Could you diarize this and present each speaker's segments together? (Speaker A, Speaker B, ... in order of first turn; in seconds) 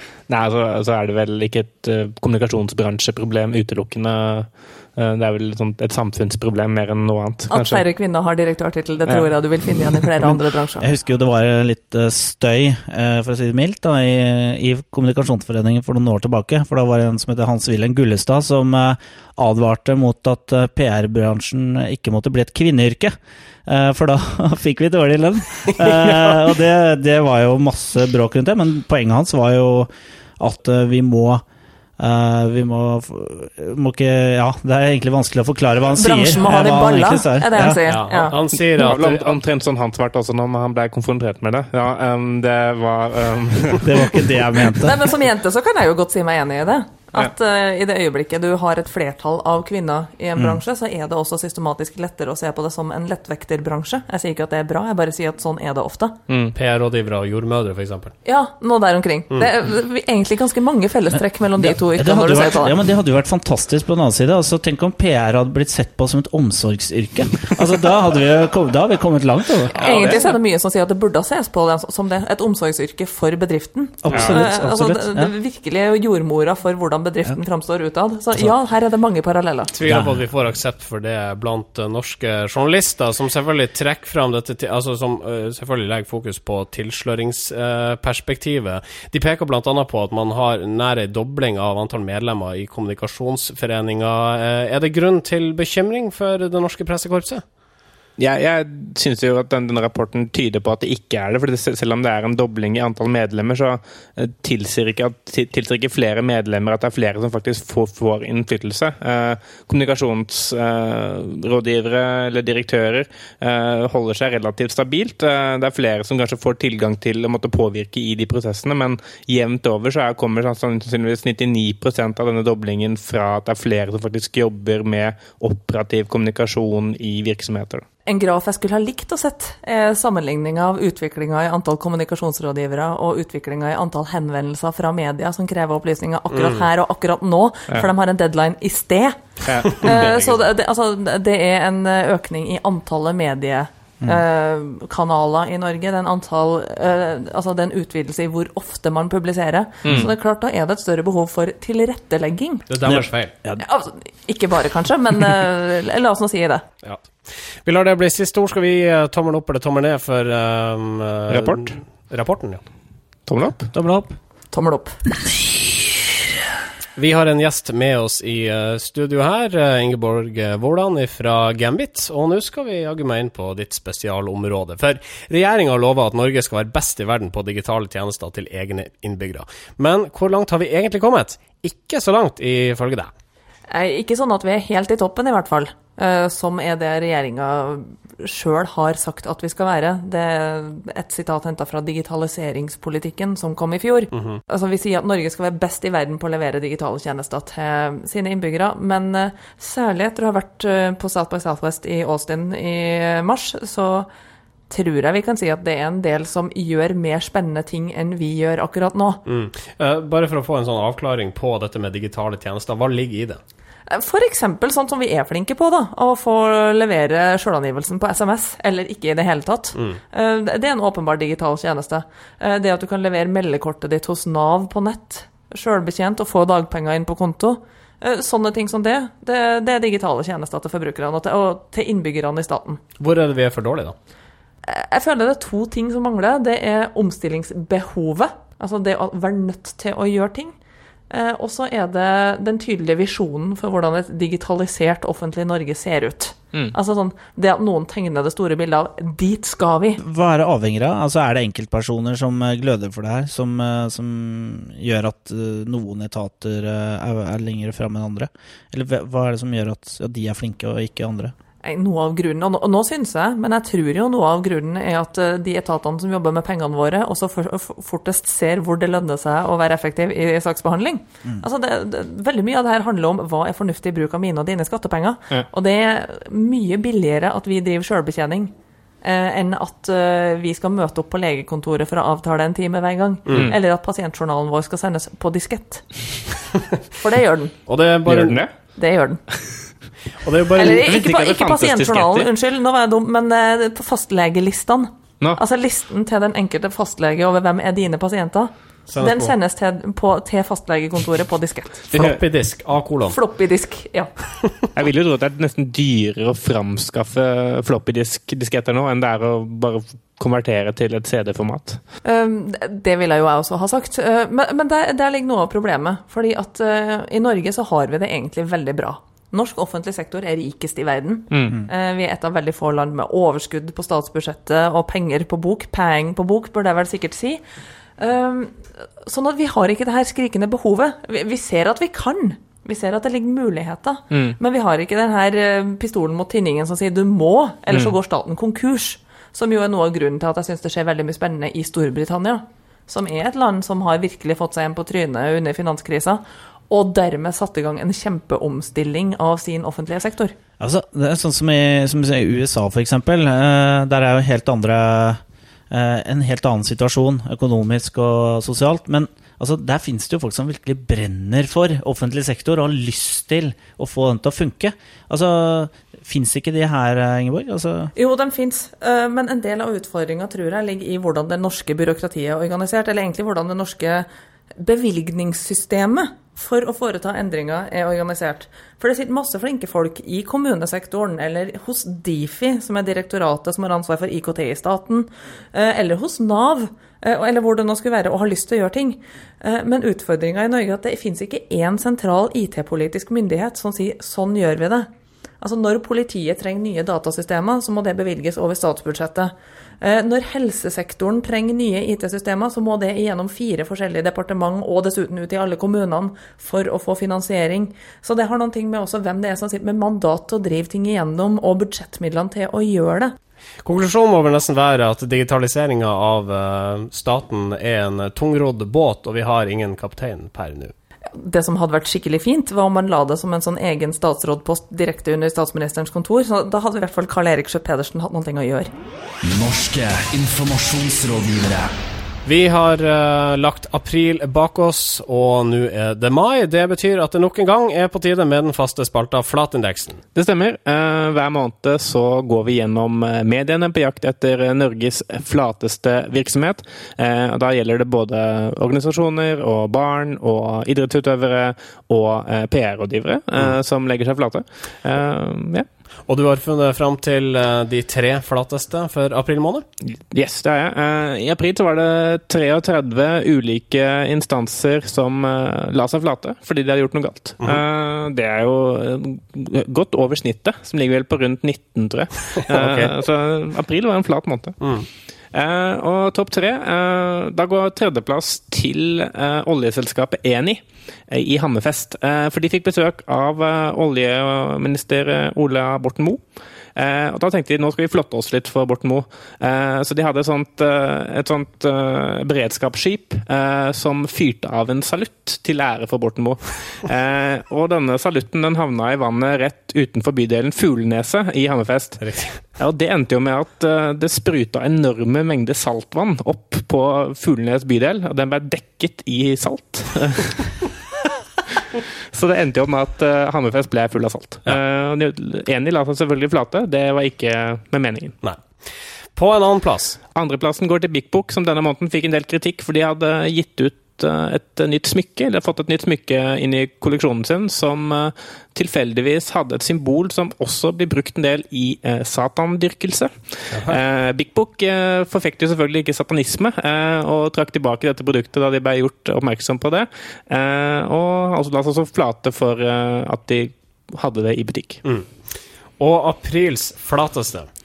Speaker A: 0.3-7.8, 38.8-44.4, 56.3-56.5, 69.8-70.3, 74.1-74.4, 98.2-127.8, 139.4-140.1, 149.8-150.1, 161.3-161.7, 163.3-163.7, 288.1-288.5, 290.6-292.3, 304.7-311.8, 321.3-321.6, 440.1-455.6, 459.9-474.6, 475.3-486.2, 486.8-502.1, 502.6-510.7, 511.5-518.2, 520.1-544.8
Speaker B: 7.5-10.9, 36.0-38.4, 44.8-56.2, 58.2-62.8, 69.8-79.7, 128.1-152.7, 153.6-156.6, 164.5-165.0, 183.7-204.1, 204.7-209.2, 213.9-232.8, 234.6-240.5, 241.1-250.0, 261.6-278.5, 279.0-285.9, 286.9-287.5, 288.7-289.2, 290.5-301.9, 303.1-304.1, 312.0-327.4, 328.0-350.4, 367.9-394.9, 395.4-413.1, 421.1-428.7
Speaker C: 10.2-31.4, 32.0-37.8, 43.8-45.1, 61.6-69.8, 74.0-75.3, 79.8-80.2, 152.8-153.6, 163.7-164.2, 250.0-261.3, 350.6-367.9
Speaker D: 37.9-39.4, 56.5-58.1, 69.8-70.2, 79.7-97.4, 136.3-136.7, 139.7-140.4, 152.7-153.3, 156.8-157.1, 157.6-162.6, 166.9-183.1, 194.1-194.4, 209.2-213.4, 233.0-233.9, 283.3-283.5, 287.7-288.4, 290.2-290.8, 298.9-299.3, 301.9-303.2, 413.6-420.7, 432.2-440.0, 456.1-459.6, 472.5-472.9, 474.6-474.9, 502.0-502.4, 519.1-520.0, 533.5-533.8, 545.8-547.5
Speaker E: 429.2-431.7